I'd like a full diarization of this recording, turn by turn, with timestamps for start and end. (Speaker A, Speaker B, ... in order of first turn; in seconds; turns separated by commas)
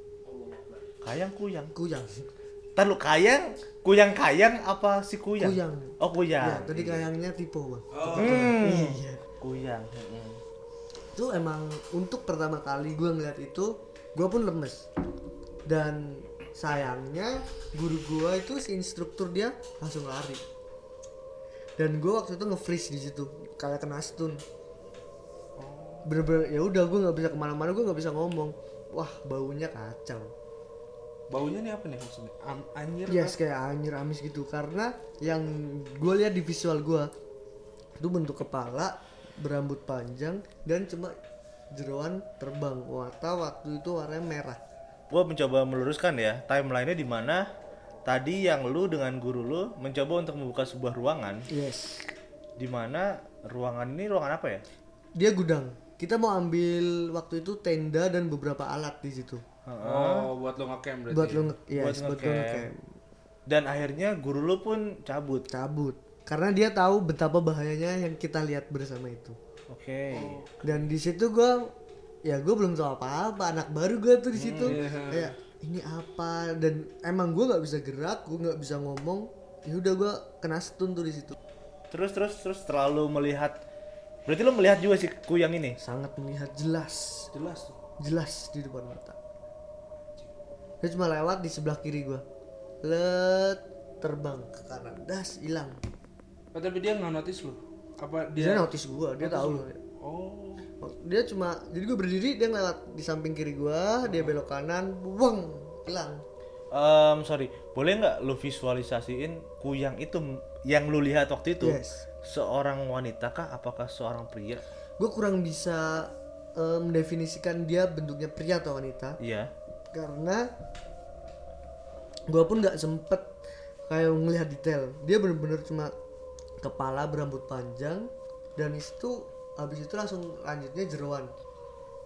Speaker A: 1.0-1.7, Speaker B: 1.8-2.2, Speaker A: 2.8-7.1, Speaker B: 5.4-9.2, Speaker C: 7.9-8.6, Speaker A: 8.1-10.4, Speaker B: 11.1-14.9, Speaker B: 15.7-20.4, Speaker B: 21.8-24.4, Speaker C: 25.6-26.1, Speaker B: 26.1-30.3, Speaker C: 31.3-33.4, Speaker B: 33.1-37.1, Speaker B: 38.0-41.1, Speaker B: 41.7-44.6, Speaker A: 45.1-47.5, Speaker A: 48.1-51.5, Speaker B: 51.5-52.1, Speaker A: 52.6-54.6, Speaker B: 55.2-59.4, Speaker A: 59.7-60.3, Speaker C: 59.8-61.5, Speaker B: 61.1-62.8, Speaker A: 61.7-62.7, Speaker A: 63.5-65.5, Speaker B: 65.5-69.4, Speaker A: 69.7-70.4, Speaker C: 70.1-70.9, Speaker B: 70.6-71.7, Speaker B: 72.2-81.4, Speaker A: 74.3-74.8, Speaker C: 74.6-75.3, Speaker A: 81.9-83.6, Speaker A: 84.3-85.8, Speaker B: 85.8-87.3, Speaker C: 87.3-87.8, Speaker B: 88.0-89.2, Speaker B: 90.8-92.2, Speaker B: 92.8-95.8, Speaker C: 96.5-100.7, Speaker B: 98.4-99.8, Speaker B: 100.8-106.2, Speaker C: 104.0-104.3, Speaker A: 106.7-114.6, Speaker B: 111.6-112.1, Speaker B: 115.0-119.2, Speaker A: 119.2-119.5, Speaker B: 119.9-120.5, Speaker B: 122.3-123.3, Speaker B: 123.9-125.9, Speaker B: 126.6-131.3